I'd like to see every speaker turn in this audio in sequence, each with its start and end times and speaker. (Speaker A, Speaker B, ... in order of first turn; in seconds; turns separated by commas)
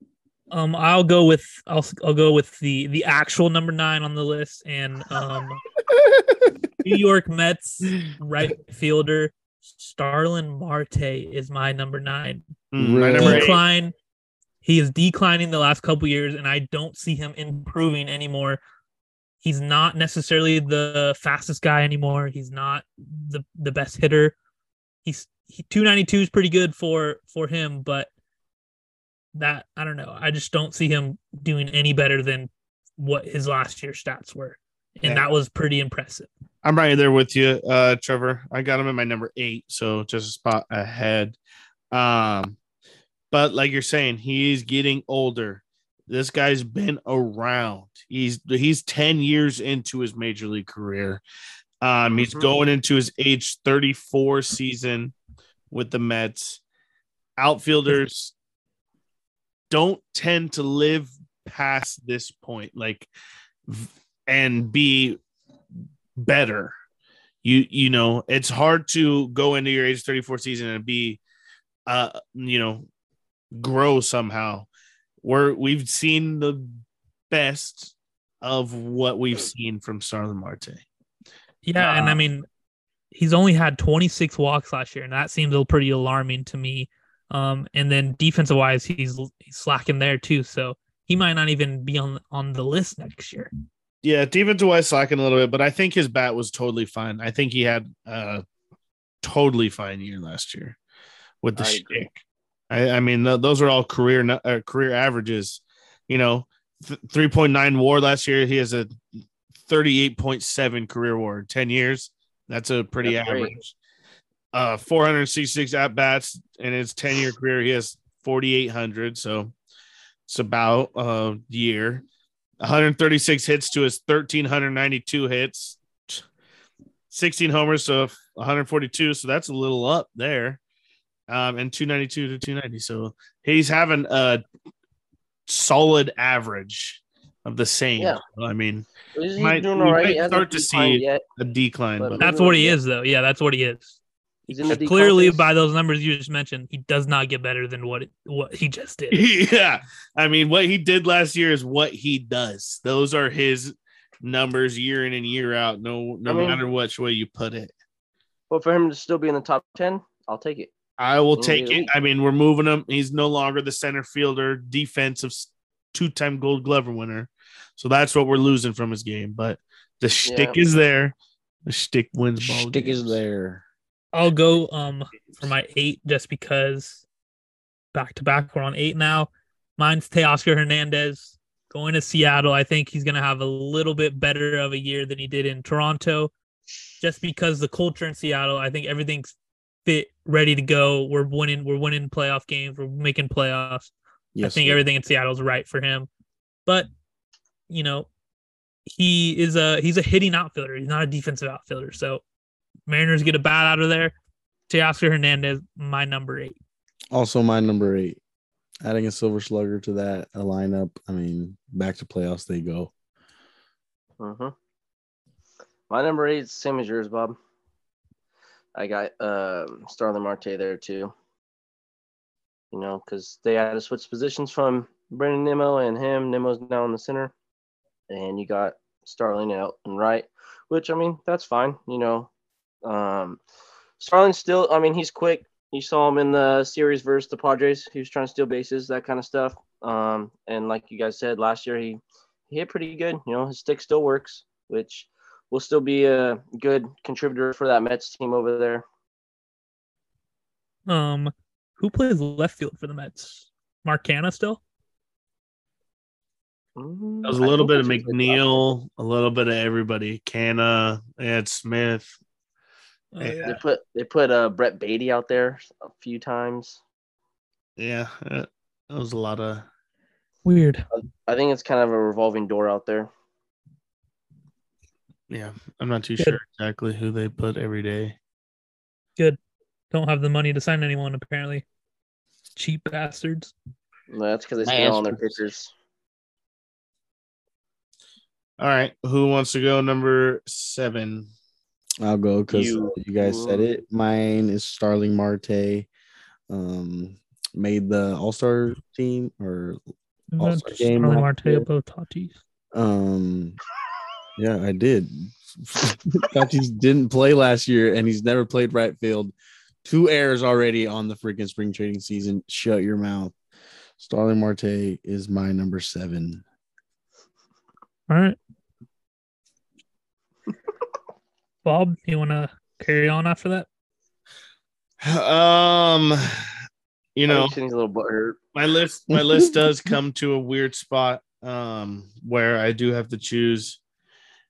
Speaker A: 0.5-5.6, Speaker B: 5.9-6.5, Speaker A: 6.8-12.4, Speaker C: 12.7-13.6, Speaker B: 12.8-13.6, Speaker A: 13.2-13.9, Speaker A: 14.6-18.6, Speaker A: 19.4-24.4, Speaker A: 25.1-28.1, Speaker A: 29.3-36.3, Speaker C: 36.6-41.4, Speaker C: 41.9-42.6, Speaker C: 43.3-51.2, Speaker C: 51.8-55.1, Speaker D: 52.1-52.5, Speaker C: 55.7-56.6, Speaker C: 57.4-58.4, Speaker C: 59.7-63.1, Speaker C: 63.7-65.2, Speaker C: 66.2-66.7, Speaker C: 67.4-71.2, Speaker C: 71.9-72.9, Speaker C: 73.5-74.7, Speaker C: 75.2-80.8, Speaker A: 81.6-82.5, Speaker C: 81.8-82.1, Speaker A: 83.1-93.5, Speaker C: 94.0-98.4, Speaker C: 99.2-100.8, Speaker C: 101.4-102.2, Speaker D: 101.6-102.1, Speaker C: 102.7-108.9, Speaker C: 109.7-113.7, Speaker D: 113.0-113.5, Speaker C: 114.5-119.5, Speaker C: 120.3-122.0, Speaker C: 122.6-126.2, Speaker C: 127.1-130.6, Speaker C: 131.3-134.4, Speaker C: 135.5-142.2, Speaker D: 139.2-141.2, Speaker D: 142.0-142.8, Speaker A: 142.2-144.0, Speaker D: 144.5-145.5, Speaker A: 144.6-149.2, Speaker C: 149.1-157.7, Speaker D: 156.3-156.6, Speaker D: 158.5-160.7, Speaker C: 161.0-171.2, Speaker D: 161.4-161.9, Speaker D: 170.2-170.6, Speaker C: 171.7-173.2, Speaker B: 172.4-173.6, Speaker A: 174.1-177.0, Speaker A: 177.9-186.3, Speaker A: 187.0-196.1, Speaker B: 194.3-194.8, Speaker A: 197.7-198.1, Speaker A: 198.9-202.2, Speaker A: 202.9-204.2, Speaker A: 204.7-206.6, Speaker B: 207.1-208.2, Speaker B: 208.8-212.9, Speaker D: 214.2-214.5, Speaker D: 215.9-217.4, Speaker D: 218.8-221.1, Speaker D: 222.7-227.3, Speaker D: 228.1-232.3, Speaker D: 232.8-233.4, Speaker D: 234.0-248.8, Speaker A: 250.9-254.6, Speaker D: 256.8-258.6, Speaker C: 257.2-262.2, Speaker A: 263.1-263.5, Speaker C: 263.2-263.6, Speaker D: 263.4-266.8, Speaker C: 267.8-269.7, Speaker A: 270.4-270.9, Speaker D: 270.9-273.1, Speaker C: 275.3-278.2, Speaker A: 279.9-281.6, Speaker A: 282.6-283.5, Speaker D: 284.1-285.7, Speaker B: 284.6-285.4, Speaker C: 288.6-291.3, Speaker B: 292.0-295.9, Speaker D: 292.5-293.8, Speaker B: 296.5-299.8, Speaker A: 300.4-302.4, Speaker B: 300.4-301.7, Speaker B: 302.7-303.6, Speaker B: 304.4-313.4, Speaker B: 314.0-316.4, Speaker A: 318.1-318.4, Speaker A: 321.6-323.7, Speaker C: 325.0-326.3, Speaker C: 327.2-327.6, Speaker D: 327.3-328.4, Speaker C: 328.6-333.8, Speaker B: 329.1-329.6